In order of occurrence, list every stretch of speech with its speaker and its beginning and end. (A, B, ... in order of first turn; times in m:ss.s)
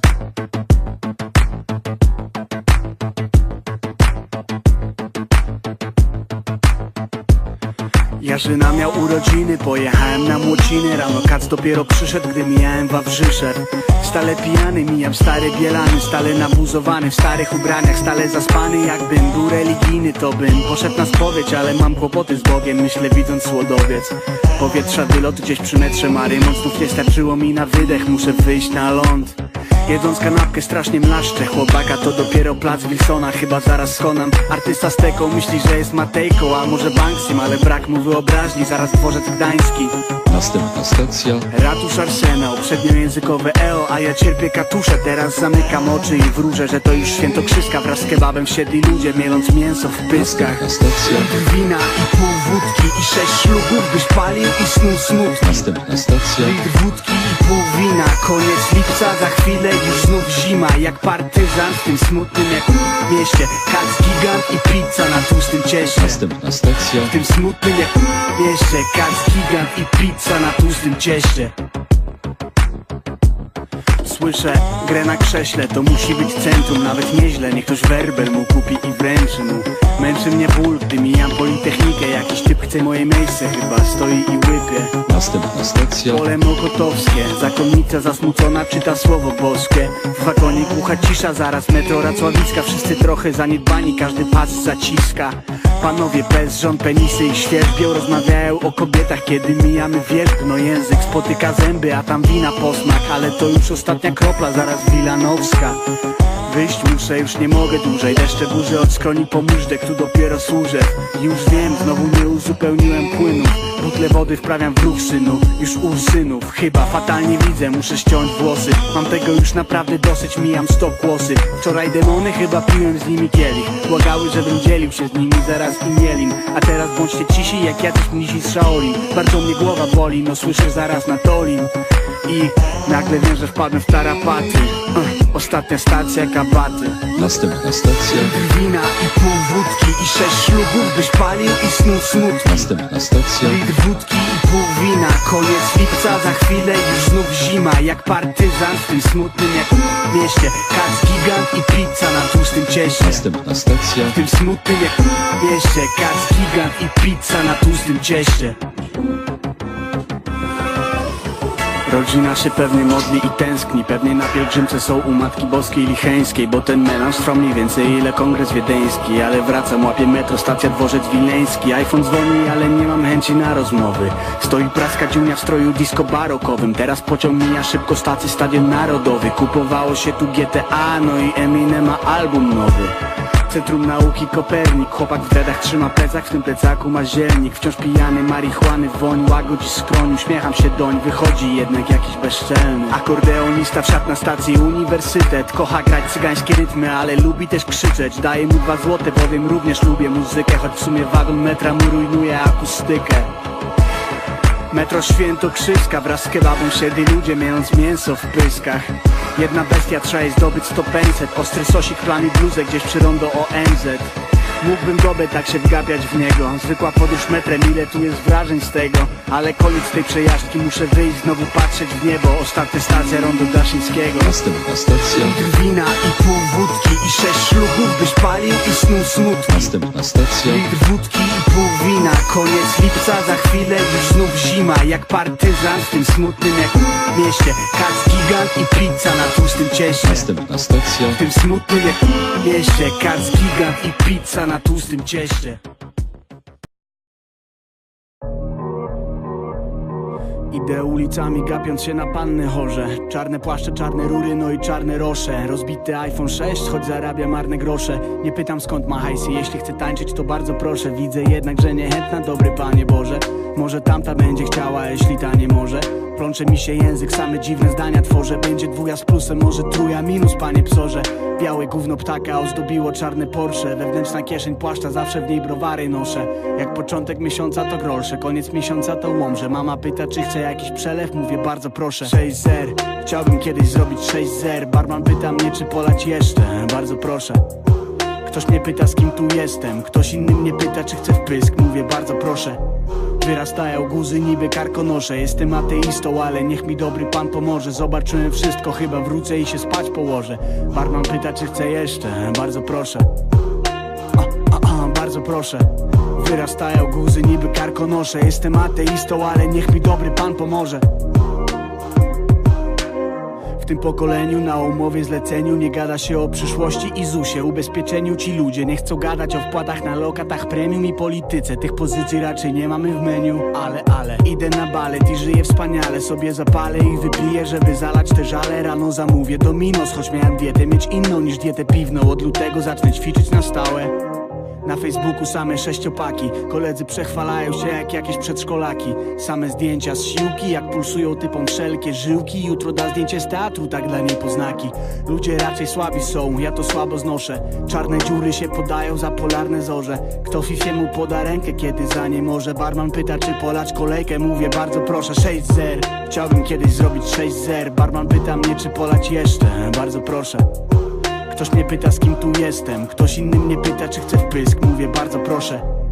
0:08.2-0:40.1 A
0:40.3-0:41.5 B
0:41.5-0:55.7 A
0:50.1-0:51.3 B
0:55.4-0:56.6 B
0:56.4-1:06.2 A
1:06.0-1:07.1 B
1:07.0-1:11.6 A
1:14.0-1:25.1 A
1:25.1-1:26.2 B
1:26.0-1:45.8 A
1:46.4-2:17.2 A
2:17.2-2:18.3 B
2:18.1-2:22.7 A
2:22.5-2:23.6 B
2:23.4-2:33.3 A
2:33.0-2:34.2 B
2:34.1-2:38.6 A
2:41.9-3:23.3 A
3:24.7-3:44.4 A
3:44.2-3:45.4 B
3:45.2-3:49.8 A
3:49.5-3:50.6 B
3:50.4-4:00.3 A
4:00.0-4:01.2 B
4:01.1-4:05.6 A
4:10.5-4:47.4 A
4:48.2-4:52.6 A
4:53.2-5:03.1 A
5:04.2-5:10.8 A
5:13.6-5:34.0 A
5:34.6-6:00.5 A
6:01.3-6:05.7 A